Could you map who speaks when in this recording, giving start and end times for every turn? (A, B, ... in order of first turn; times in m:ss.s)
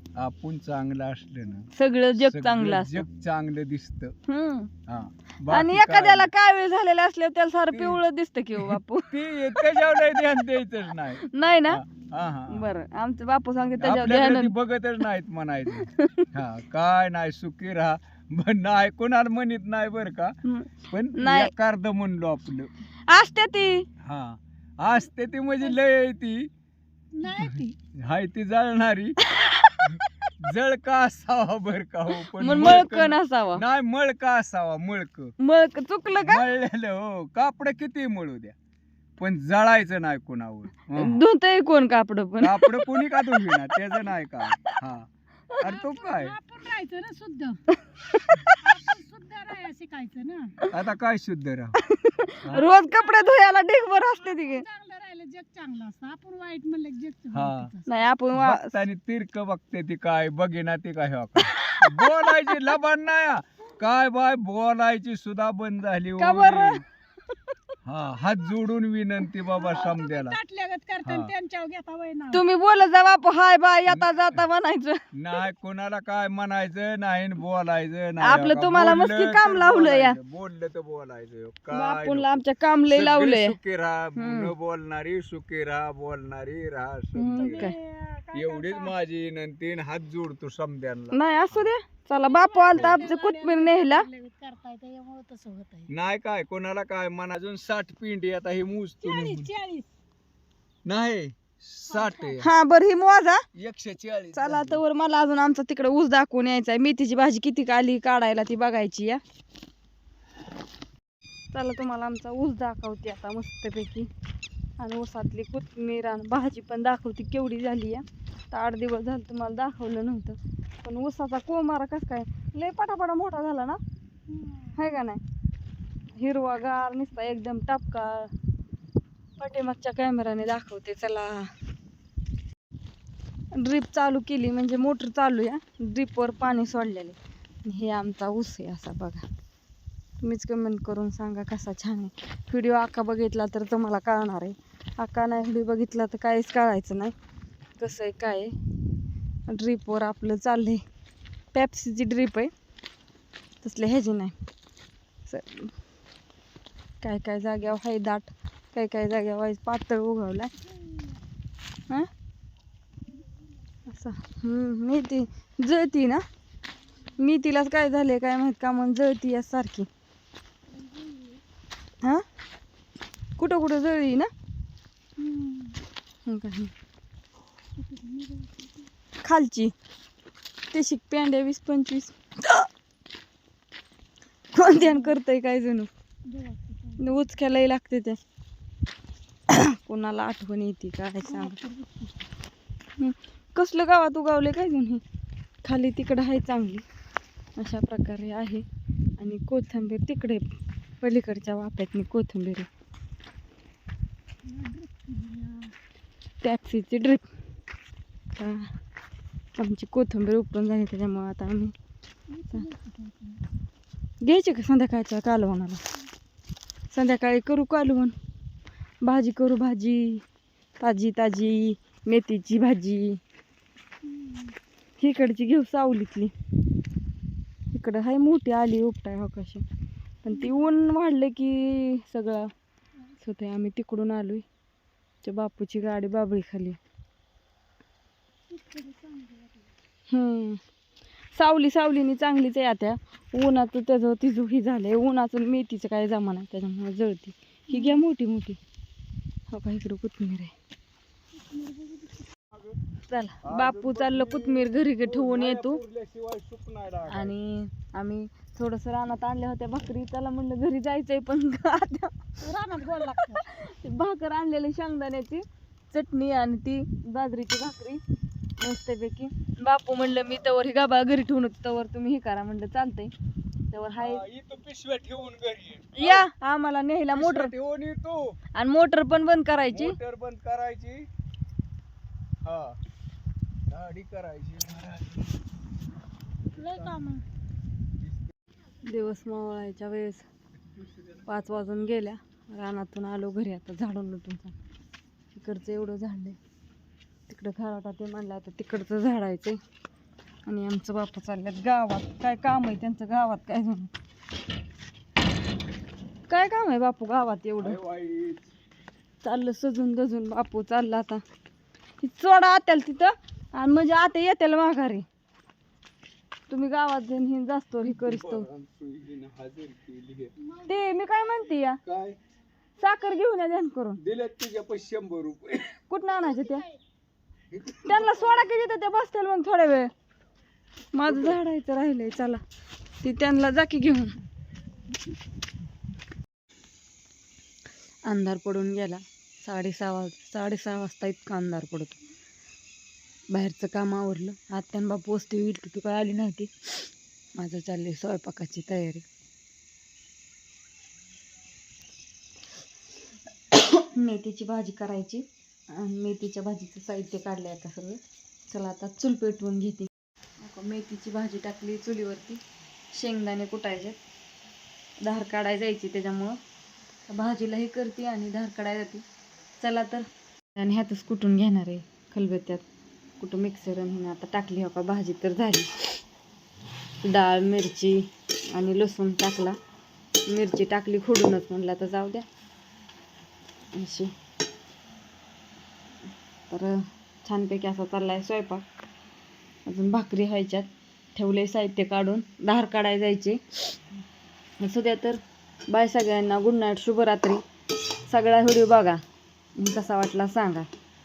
0:00.2-0:04.2 A
0:01.7-0:03.0 B
0:04.3-0:04.7 B
0:04.9-0:06.3 A
0:05.5-0:10.5 B
0:07.7-0:08.0 A
0:08.6-0:12.7 A
0:11.2-0:11.8 B
0:12.5-0:14.6 B
0:13.8-0:20.4 A
0:15.8-0:16.3 B
0:20.4-0:21.5 B
0:20.9-0:22.7 A
0:23.1-0:23.9 B
0:24.0-0:26.5 A
0:27.1-0:27.8 C
0:27.4-0:29.2 A
0:29.3-0:30.1 B
0:29.8-0:35.4 A
0:32.2-0:33.6 B
0:35.4-0:36.4 B
0:36.2-0:38.6 A
0:39.2-0:41.2 A
0:41.0-0:43.8 B
0:42.4-0:45.1 A
0:45.6-0:46.4 A
0:45.6-0:47.6 C
0:47.8-0:48.6 B
0:48.6-0:50.6 C
0:50.7-0:51.8 A
0:51.9-0:54.6 B
0:52.5-0:53.4 C
0:54.0-0:58.1 C
0:57.3-0:57.7 A
0:57.9-0:58.8 B
0:58.3-1:06.8 A
1:01.4-1:02.7 B
1:06.2-1:06.8 B
1:07.8-1:10.4 A
1:09.6-1:12.4 C
1:11.0-1:11.3 A
1:12.3-1:15.0 B
1:13.9-1:14.4 A
1:15.1-1:27.7 A
1:18.2-1:20.2 B
1:21.7-1:23.6 B
1:24.2-1:24.5 B
1:27.2-1:27.8 B
1:27.4-1:28.9 C
1:28.3-1:31.7 A
1:31.1-1:34.1 B
1:32.1-1:35.9 C
1:32.7-1:33.0 A
1:35.9-1:39.5 A
1:39.0-1:39.9 C
1:40.8-1:42.5 A
1:41.9-1:42.4 C
1:42.4-1:43.4 B
1:43.6-1:44.8 A
1:44.3-1:49.2 B
1:51.5-1:54.1 B
1:54.8-2:03.8 B
2:04.3-2:04.8 C
2:04.8-2:05.2 B
2:06.2-2:08.3 B
2:09.4-2:11.5 B
2:13.5-2:19.2 B
2:20.2-2:27.1 B
2:27.8-2:28.6 B
2:29.5-2:30.8 B
2:31.5-2:32.5 B
2:33.6-2:34.4 B
2:35.3-2:35.7 B
2:37.0-2:40.5 B
2:40.8-2:41.2 C
2:43.9-2:46.2 B
2:47.2-2:49.9 B
2:50.7-2:51.4 C
2:53.4-2:54.3 B
2:55.2-2:55.8 C
2:56.3-2:56.7 B
2:57.8-2:58.9 C
2:59.2-2:59.7 B
3:00.7-3:02.7 B
3:04.6-3:05.9 B
3:04.7-3:05.2 C
3:06.3-3:07.2 C
3:07.0-3:08.2 B
3:09.5-3:11.6 B
3:11.2-3:12.3 C
3:13.0-3:15.0 B
3:15.6-3:16.8 B
3:17.6-3:18.6 B
3:19.2-3:20.5 B
3:21.0-3:22.7 B
3:24.4-3:25.7 C
3:26.4-3:27.3 B
3:28.4-3:28.7 B
3:29.6-3:31.7 B
3:32.3-3:33.4 C
3:34.2-3:35.8 B
3:36.9-3:38.1 B
3:39.0-3:40.2 B
3:40.8-3:43.2 B
3:44.0-3:44.6 C
3:45.0-3:46.3 B
3:47.7-3:49.6 B
3:50.2-3:52.5 B
3:50.3-3:50.7 C
3:53.2-3:54.4 B
3:55.2-3:56.8 B
3:58.5-3:59.7 C
4:00.1-4:00.6 B
4:01.4-4:08.6 B
4:07.7-4:08.0 C
4:09.5-4:10.5 B
4:11.4-4:12.3 C
4:12.5-4:12.8 A
4:13.1-4:15.8 B
4:13.4-4:17.3 A
4:17.1-4:22.2 B
4:22.4-4:23.4 C
4:23.3-4:28.0 B
4:28.6-4:33.1 B
4:33.7-4:34.2 B
4:34.0-4:36.3 A
4:36.0-4:37.5 B
4:37.1-4:38.4 A
4:38.6-4:40.0 B
4:39.7-4:41.1 A
4:42.4-4:42.8 A
4:43.7-4:45.4 A
4:46.6-4:47.2 C
4:46.6-4:46.9 A
4:48.8-4:50.2 B
4:51.3-4:54.6 B
4:55.3-4:56.4 B
4:57.3-4:59.6 B
5:00.5-5:03.9 B
5:06.3-5:07.8 B
5:07.6-5:08.5 A
5:09.2-5:11.2 B
5:12.0-5:15.0 B
5:16.5-5:18.5 B
5:17.9-5:20.3 A
5:20.5-5:20.8 C
5:20.7-5:21.8 B
5:21.8-5:22.2 A
5:22.8-5:24.0 B
5:24.0-5:25.8 A
5:25.9-5:26.7 B
5:27.5-5:28.5 A
5:27.8-5:29.9 B
5:30.9-5:32.4 B
5:31.1-5:31.4 A
5:33.0-5:34.2 B
5:38.1-5:42.0 B
5:43.3-5:49.0 B
5:53.5-6:02.4 B
6:02.9-6:04.0 B
6:05.0-6:06.4 B
6:07.1-6:09.0 B
6:09.6-6:10.0 B
6:10.6-6:12.6 B
6:13.2-6:15.7 B
6:17.0-6:19.6 B
6:20.3-6:22.2 B
6:23.7-6:24.1 B
6:26.5-6:28.6 B
6:29.7-6:33.7 B
6:34.6-6:37.4 B
6:38.1-6:39.0 B
6:39.6-6:40.7 B